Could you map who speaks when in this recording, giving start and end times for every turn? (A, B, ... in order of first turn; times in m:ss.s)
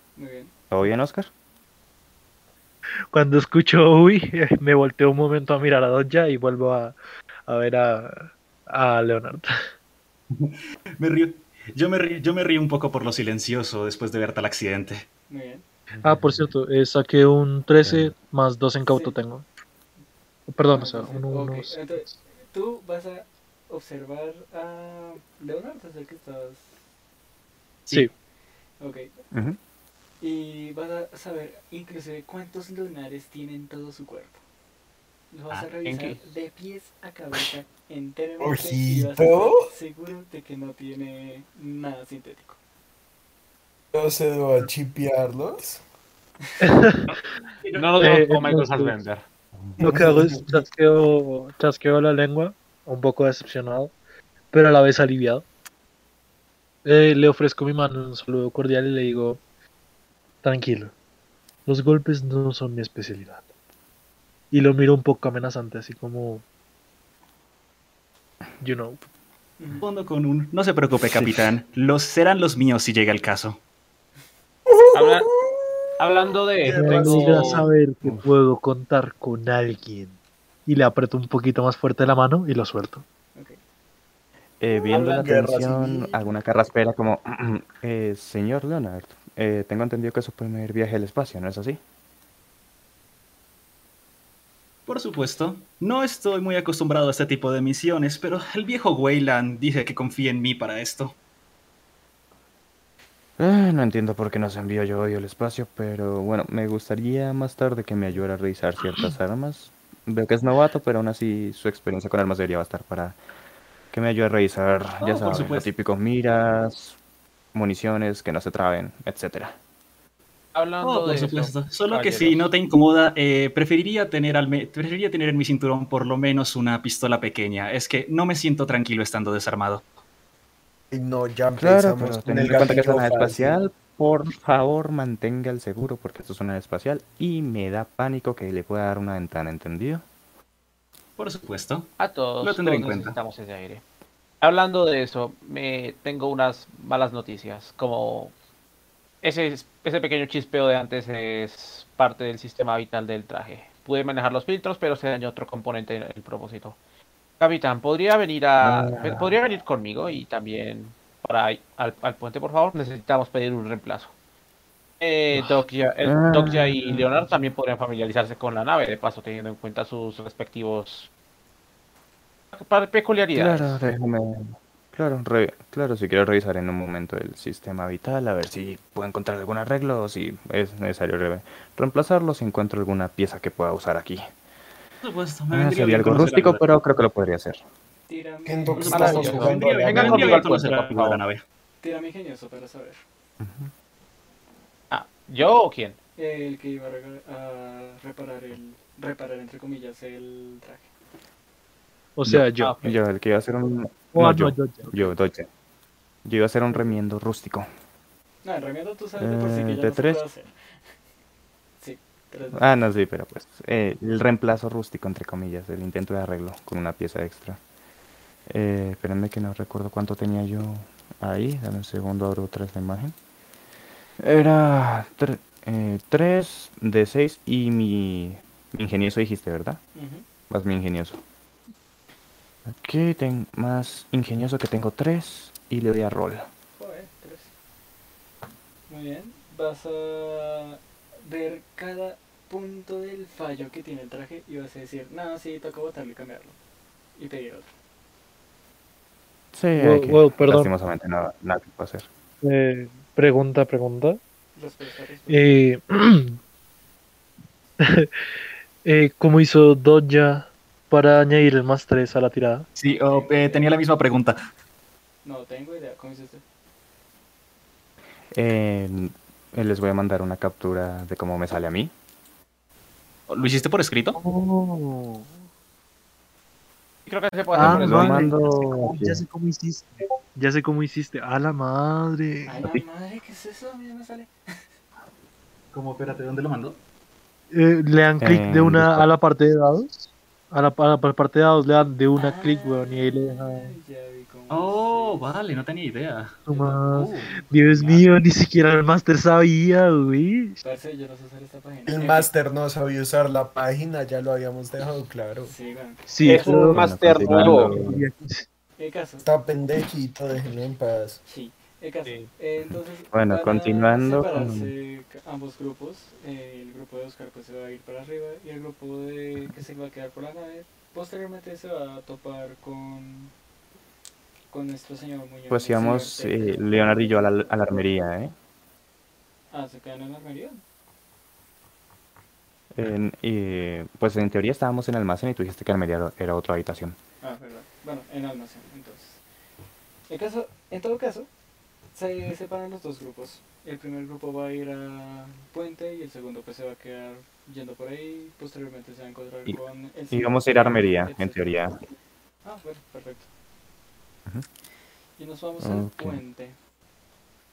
0:00.2-0:00.5 A
0:00.7-0:01.3 B
0:03.1-0:07.0 C
0:07.5-0:09.5 C
0:10.3-0:15.0 D
0:15.3-0:15.6 A
0:16.0-0:16.5 B
0:16.0-0:19.5 C
0:17.8-0:18.1 B
0:18.9-0:19.2 A
0:20.5-0:22.2 C
0:20.7-0:26.8 A
0:28.8-0:29.1 A
0:29.3-0:29.6 B
0:30.2-0:34.4 A
0:35.3-0:42.6 A
0:35.6-0:36.2 E
0:38.4-0:39.6 F
0:43.9-0:45.8 F
0:46.6-0:47.2 C
0:47.6-0:48.2 D
0:47.7-0:49.2 E
0:48.0-0:49.0 C
0:49.8-0:50.6 F
0:49.8-0:53.9 C
0:54.5-0:55.4 C
0:56.8-0:59.4 C
1:00.4-1:00.9 C
1:01.7-1:03.5 C
1:04.5-1:06.4 C
1:08.6-1:09.0 C
1:09.6-1:09.8 A
1:09.8-1:13.6 D
1:11.0-1:11.5 B
1:14.7-1:16.0 F
1:14.9-1:15.3 E
1:16.0-1:17.7 E
1:16.6-1:17.6 F
1:16.7-1:23.0 C
1:18.0-1:18.3 B
1:23.3-1:23.6 A
1:24.6-1:31.8 B
1:24.7-1:26.2 F
1:34.9-1:41.2 D
1:43.4-1:53.2 B
1:53.9-1:57.0 B
1:55.0-1:55.7 D
1:57.5-1:59.6 B
2:00.6-2:02.5 E
2:00.8-2:09.8 D
2:10.9-2:13.6 F
2:11.6-2:20.0 B
2:21.2-2:21.9 D
2:22.0-2:23.8 E
2:22.4-2:23.2 D
2:24.4-2:28.3 E
2:29.2-2:36.8 E
2:37.4-2:44.1 E
2:38.6-2:39.3 B
2:45.0-2:51.1 E
2:45.3-2:47.4 B
2:52.5-2:53.8 E
2:53.4-3:04.3 B
3:05.0-3:06.7 D
3:05.5-3:07.6 B
3:08.1-3:09.5 A
3:08.5-3:10.5 F
3:08.8-3:11.4 D
3:08.8-3:11.2 E
3:11.8-3:13.0 A
3:13.4-3:13.7 B
3:14.9-3:16.0 E
3:16.2-3:20.9 A
3:22.2-3:22.9 C
3:22.3-3:25.5 B
3:24.1-3:25.1 C
3:26.2-3:27.7 B
3:26.7-3:27.0 A
3:28.4-3:30.5 A
3:29.2-3:30.2 B
3:31.8-3:32.7 A
3:32.5-3:37.6 B
3:38.5-3:43.2 B
3:44.2-3:49.8 B
3:50.0-3:50.2 A
3:50.5-3:51.2 B
3:52.7-3:56.5 B
3:56.8-3:57.5 A
3:58.9-4:06.6 A
4:07.2-4:07.7 A
4:09.5-4:12.1 B
4:09.8-4:10.7 C
4:12.4-4:14.2 C
4:14.6-4:15.7 A
4:15.3-4:16.4 C
4:17.8-4:18.1 C
4:18.8-4:22.7 C
4:22.8-4:24.4 D
4:22.8-4:23.7 A
4:25.2-4:26.4 A
4:28.3-4:31.9 B
4:33.3-4:34.2 D
4:34.2-4:35.4 C
4:37.1-4:38.2 E
4:37.5-4:42.8 C
4:37.6-4:39.2 B
4:42.4-4:44.6 A
4:45.7-4:46.8 D
4:47.5-4:53.7 C
4:48.2-4:49.1 B
4:52.2-4:55.3 A
4:54.5-4:56.4 D
4:56.5-5:00.6 C
4:56.5-4:57.7 A
4:57.0-4:58.0 D
5:00.6-5:02.3 A
5:01.9-5:05.5 F
5:05.4-5:06.8 A
5:06.1-5:08.5 C
5:06.2-5:07.8 E
5:06.5-5:08.0 B
5:08.8-5:09.3 A
5:09.2-5:11.2 F
5:11.3-5:23.3 A
5:13.1-5:14.7 B
5:24.5-5:27.5 A
5:25.5-5:28.3 B
5:29.5-5:30.6 A
5:32.8-5:37.0 B
5:37.2-5:39.2 A
5:40.1-5:41.3 A
5:41.9-5:51.6 A
5:50.1-5:51.8 B
5:52.4-5:53.3 A
5:55.2-5:56.6 A
5:55.6-5:56.2 B